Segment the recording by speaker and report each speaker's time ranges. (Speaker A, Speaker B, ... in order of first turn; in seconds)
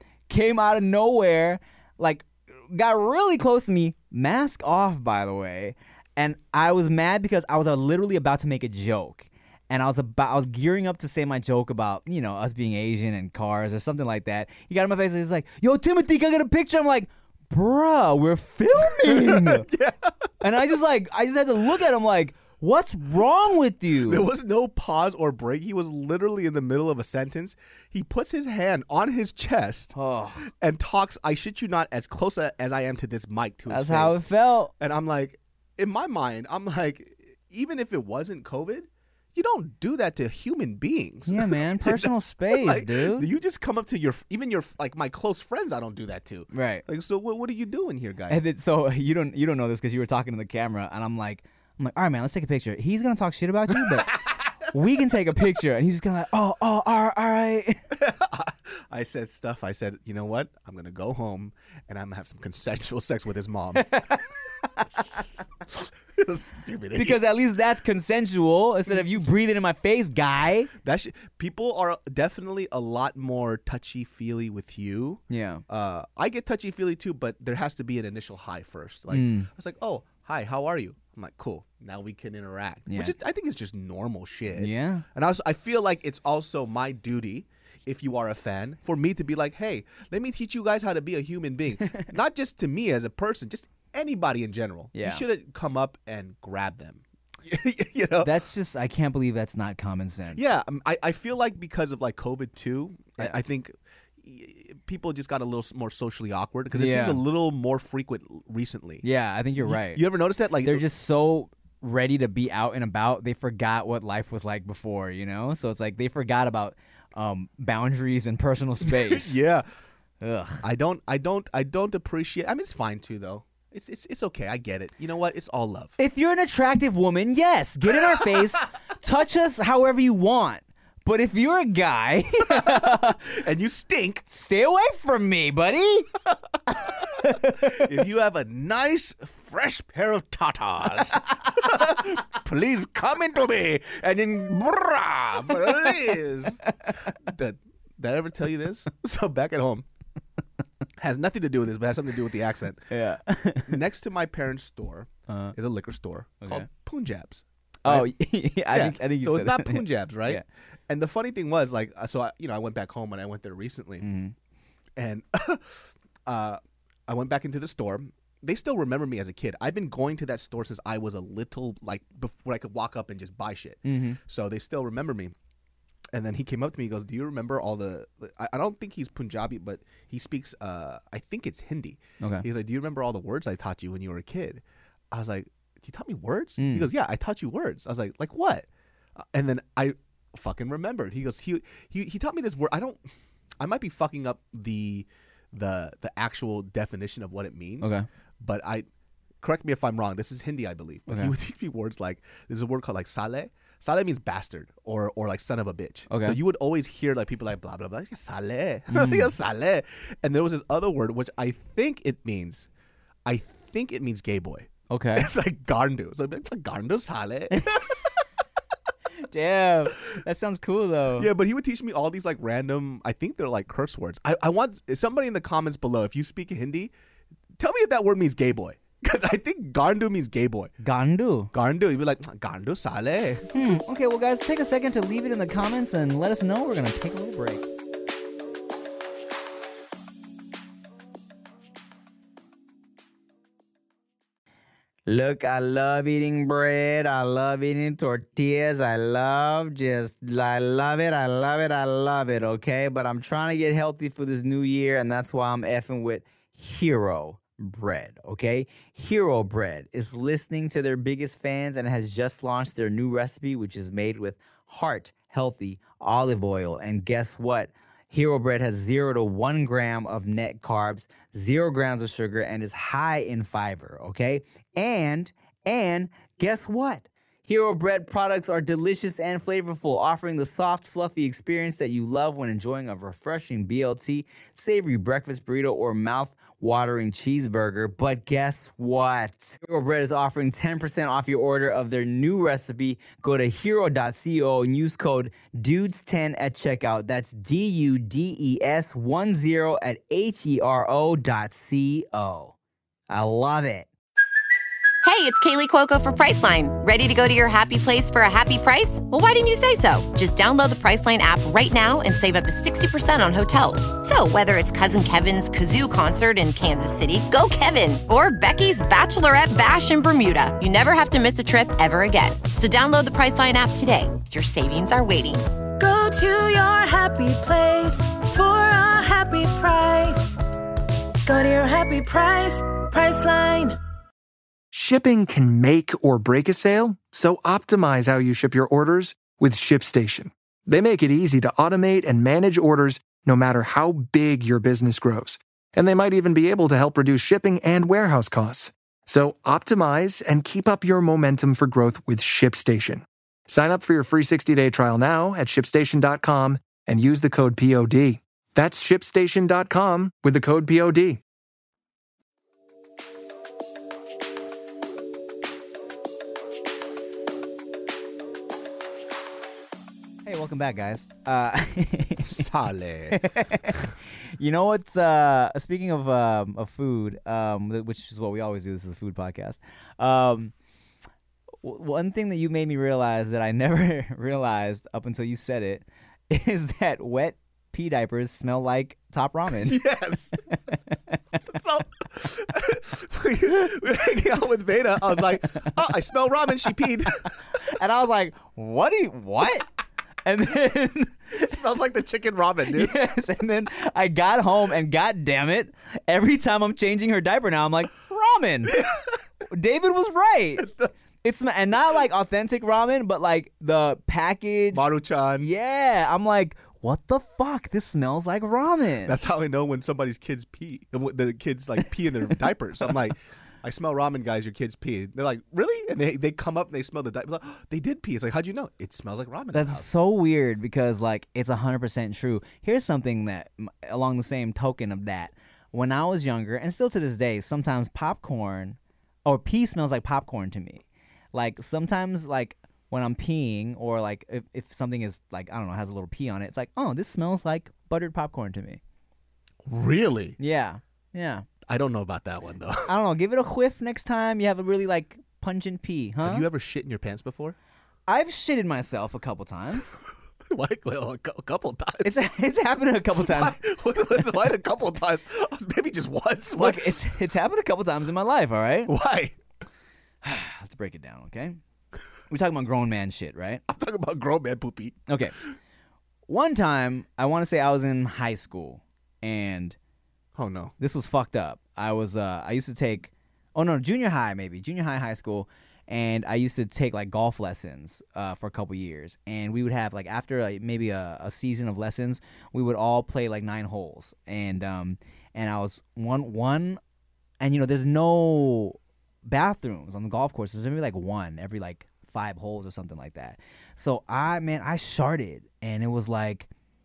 Speaker A: 0.3-19.7, 20.4-24.3, 29.9-30.5, 33.7-34.7, 41.3-43.3, 46.5-46.8, 48.3-54.2, 54.7-57.8, 63.8-64.2, 67.0-70.7, 75.3-75.6, 79.1-79.5, 82.9-83.1, 84.5-85.0, 91.8-92.1, 94.9-95.2, 98.2-100.4, 106.7-107.2, 109.0-110.0, 110.6-119.4, 120.2-120.6, 126.0-133.2, 134.3-136.1, 137.0-137.8, 152.9-153.8, 155.3-155.5, 156.4-156.7, 157.8-160.4, 164.0-164.3, 173.8-174.2, 186.6-186.9, 201.1-201.3, 206.1-206.4, 208.9-209.3, 214.9-215.3, 217.5-217.8, 219.2-221.3, 230.8-231.5, 233.5-237.7, 245.1-302.5, 303.1-303.9, 370.2-372.4, 373.1-380.5, 381.6-389.8, 397.7-399.7, 400.2-401.3, 402.7-408.8, 409.5-410.7, 411.2-419.1, 429.5-448.8, 450.4-451.4, 452.9-456.4, 458.1-460.0, 462.0-463.6, 466.6-468.9, 470.2-471.6, 472.3-473.6, 475.1-475.4, 476.3-479.8, 480.8-496.8, 497.4-506.5
Speaker B: 18.9-20.5, 24.0-34.2, 34.8-48.4, 53.8-54.4, 57.9-64.0, 65.7-67.2, 70.8-98.3, 100.3-109.0, 109.6-110.9, 118.8-119.7, 120.6-125.9, 127.9-128.6, 132.5-134.2, 137.6-149.8, 151.0-152.9, 153.7-158.1, 158.7-164.1, 164.9-175.3, 176.1-198.9, 199.4-212.7, 213.2-218.0, 221.2-226.9, 227.6-230.7, 231.5-233.4, 372.2-373.2, 389.5-390.4, 391.4-397.4, 401.3-403.0, 408.7-409.2, 410.6-410.9, 414.7-415.5, 419.0-430.0, 449.6-450.4, 451.7-452.9, 456.2-457.6, 460.5-462.3, 463.1-467.0, 468.9-469.4, 473.7-475.1, 480.4-480.7
Speaker C: 305.0-325.4
Speaker D: 325.8-330.4, 331.2-333.8
Speaker E: 334.7-361.2